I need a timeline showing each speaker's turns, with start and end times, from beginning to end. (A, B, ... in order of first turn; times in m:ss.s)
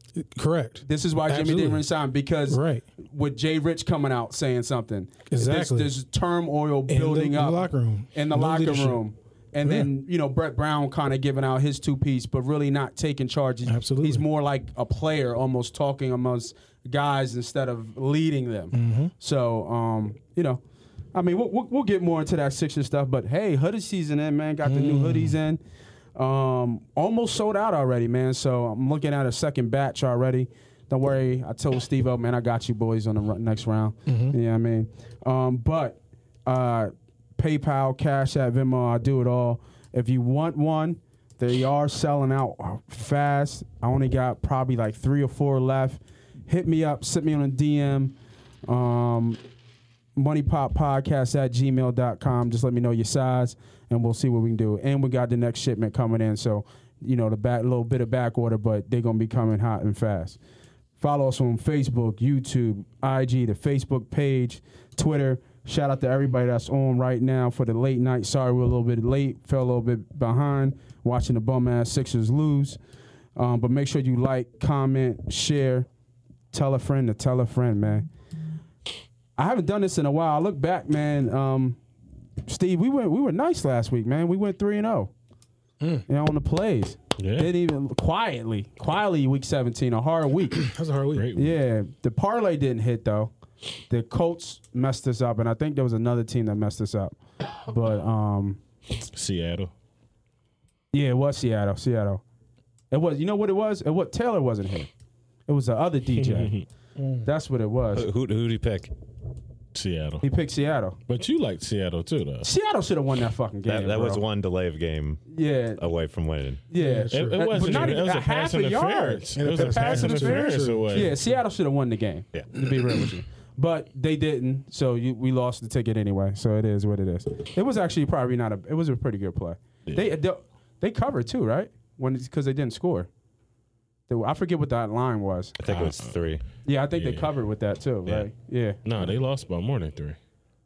0:00.2-0:01.9 A
0:00.8-0:20.6 B
0:02.5-0:02.8 A
0:05.3-0:06.0 A
0:06.9-0:09.0 A
0:13.7-0:14.2 A
0:18.7-0:19.1 A
0:21.1-0:25.6 B
0:24.6-0:25.4 A
0:26.2-0:48.2 B
0:34.1-0:34.4 A
0:48.7-0:49.4 B
0:50.2-1:00.4 B
1:01.0-1:12.8 B
1:13.4-1:15.9 B
1:16.5-1:18.1 B
1:19.4-1:21.8 B
1:22.5-1:25.1 B
1:26.1-1:30.7 B
1:27.2-1:27.5 C
1:30.6-1:31.3 A
1:31.1-1:31.6 C
1:31.4-1:33.3 B
1:33.9-1:38.6 B
1:39.1-1:39.7 C
1:40.9-1:42.2 B
1:42.9-1:44.9 B
1:45.5-1:46.6 B
1:46.2-1:46.7 C
1:47.0-1:47.3 A
1:47.2-1:48.1 B
1:47.9-1:48.9 D
1:49.7-1:50.3 C
1:50.2-1:51.0 B
1:51.1-1:52.5 C
1:52.4-1:54.2 B
1:53.7-1:55.2 D
1:55.3-1:55.8 B
1:55.8-1:56.6 D
1:56.7-2:13.1 B
1:56.8-1:58.0 A
1:57.1-2:01.2 C
1:59.4-2:01.2 A
2:14.1-2:15.6 B
2:15.6-2:16.4 D
2:15.7-2:16.2 C
2:16.6-2:18.8 B
2:17.0-2:17.3 C
2:18.8-2:20.2 C